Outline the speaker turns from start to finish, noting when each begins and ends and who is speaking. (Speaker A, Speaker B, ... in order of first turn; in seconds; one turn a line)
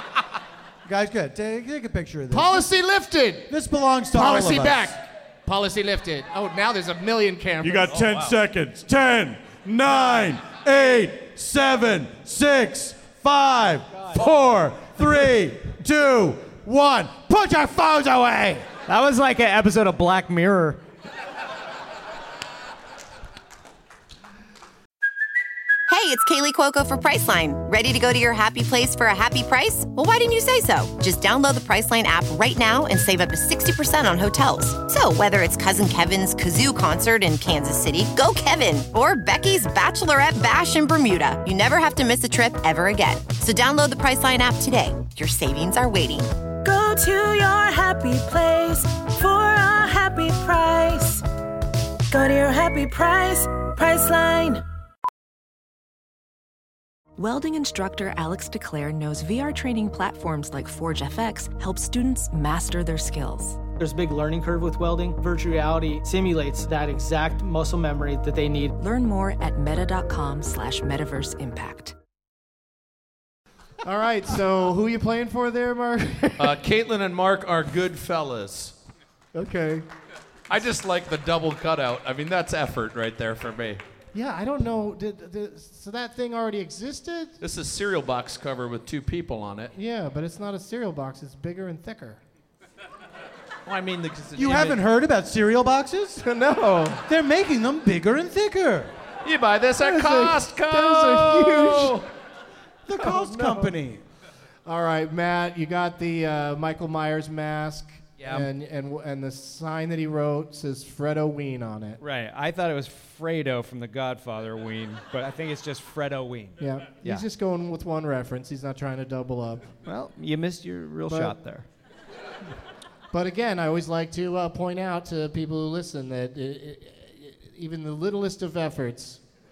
Speaker A: 0.8-2.6
Speaker B: 2.3-3.5
Speaker A: 3.5-4.9
Speaker B: 4.1-8.0
Speaker C: 7.6-9.7
Speaker D: 7.9-8.4
Speaker A: 9.0-18.7
Speaker E: 18.9-20.8
Speaker F: 25.9-46.3
Speaker G: 46.6-51.2
Speaker G: 52.1-54.6
Speaker H: 57.2-63.6
Speaker I: 63.8-68.7
Speaker H: 68.8-71.9
Speaker B: 73.8-76.6
Speaker D: 76.4-78.7
Speaker B: 79.3-79.8
Speaker D: 80.5-83.8
Speaker B: 84.1-87.4
Speaker D: 87.4-89.7
Speaker B: 89.7-92.2
Speaker D: 93.7-94.8
Speaker A: 94.3-96.2
Speaker B: 96.2-97.0
Speaker A: 97.1-98.9
Speaker D: 99.2-102.0
Speaker B: 99.7-102.1
Speaker A: 102.8-104.0
Speaker B: 102.9-103.8
Speaker B: 104.6-112.0
Speaker E: 108.2-108.5
Speaker E: 112.0-117.2
Speaker B: 116.6-119.7
Speaker E: 119.8-121.7
Speaker B: 121.1-121.3
Speaker B: 123.1-129.2